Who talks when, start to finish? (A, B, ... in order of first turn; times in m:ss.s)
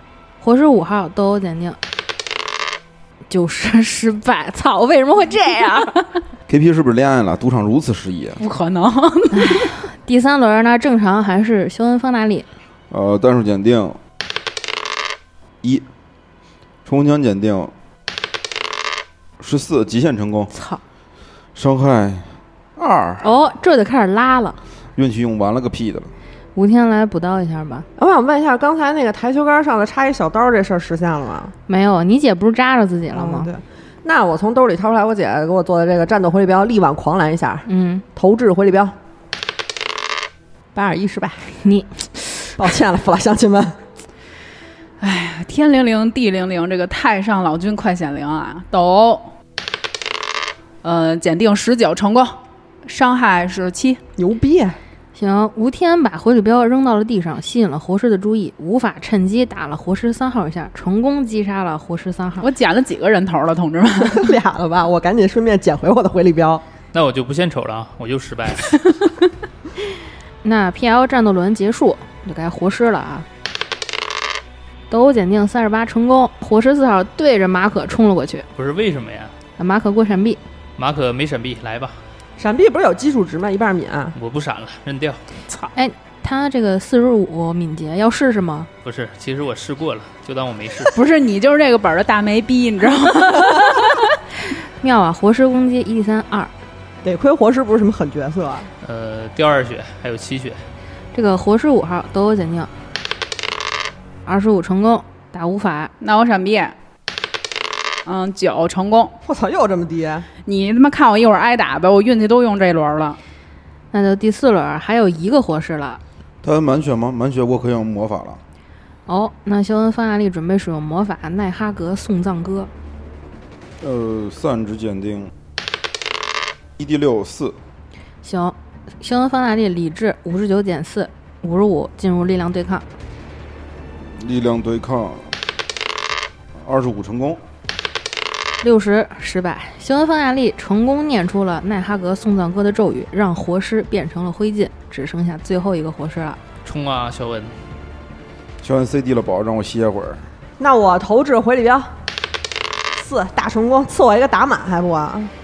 0:00.4-0:01.8 A
0:03.3-0:06.0 A
0:06.5-0:08.4 B
0:08.4-0:09.7 C
0:09.3-0:12.5 A
0:12.9-0:14.0 B
0:16.8-0:17.7 B
0:19.4-0:20.5 B
0:20.5-0:20.8 A
0:21.5-0:23.3 B
0:23.2-0:24.6 A
0:25.0-0:26.1 B
0:26.5-0:27.8 A
0:28.0-0:31.5 D
0:31.7-0:33.5 A
0:33.1-0:38.9 D
0:37.6-0:38.0 A
0:40.7-0:41.5 D
0:41.6-0:42.6 A
0:42.6-0:43.8 D
0:45.0-0:49.3 C
0:50.8-0:54.0 C
0:54.2-0:54.8 D
0:55.1-1:02.5 A
1:02.4-1:04.4 C
1:04.0-1:06.6 D
1:06.9-1:08.9 E
1:10.4-1:13.2 A
1:14.9-1:18.5 A
1:18.5-1:19.3 E
1:19.6-1:20.4 A
1:20.8-1:22.0 E
1:22.4-1:24.1 D
1:24.1-1:25.2 E
1:25.7-1:28.7 A
1:28.8-1:30.9 E
1:30.9-1:34.0 C
1:34.8-1:36.5 A
1:37.0-1:38.7 D
1:38.8-1:40.6 E
1:41.1-1:42.7 A
1:44.2-1:45.9 A
1:46.0-1:46.7 C
1:48.0-1:49.1 C
1:49.2-1:50.3 D
1:50.4-1:53.2 C
1:53.9-1:56.0 A
1:56.4-1:58.4 B
1:59.1-2:02.7 A
2:03.8-2:05.3 B
2:06.8-2:07.6 B
2:08.2-2:12.8 A
2:14.0-2:15.3 B
2:16.6-2:17.4 B
2:18.6-2:26.4 A
2:26.6-2:27.5 E
2:28.6-2:30.2 B
2:30.6-2:31.9 D
2:32.9-2:35.3 D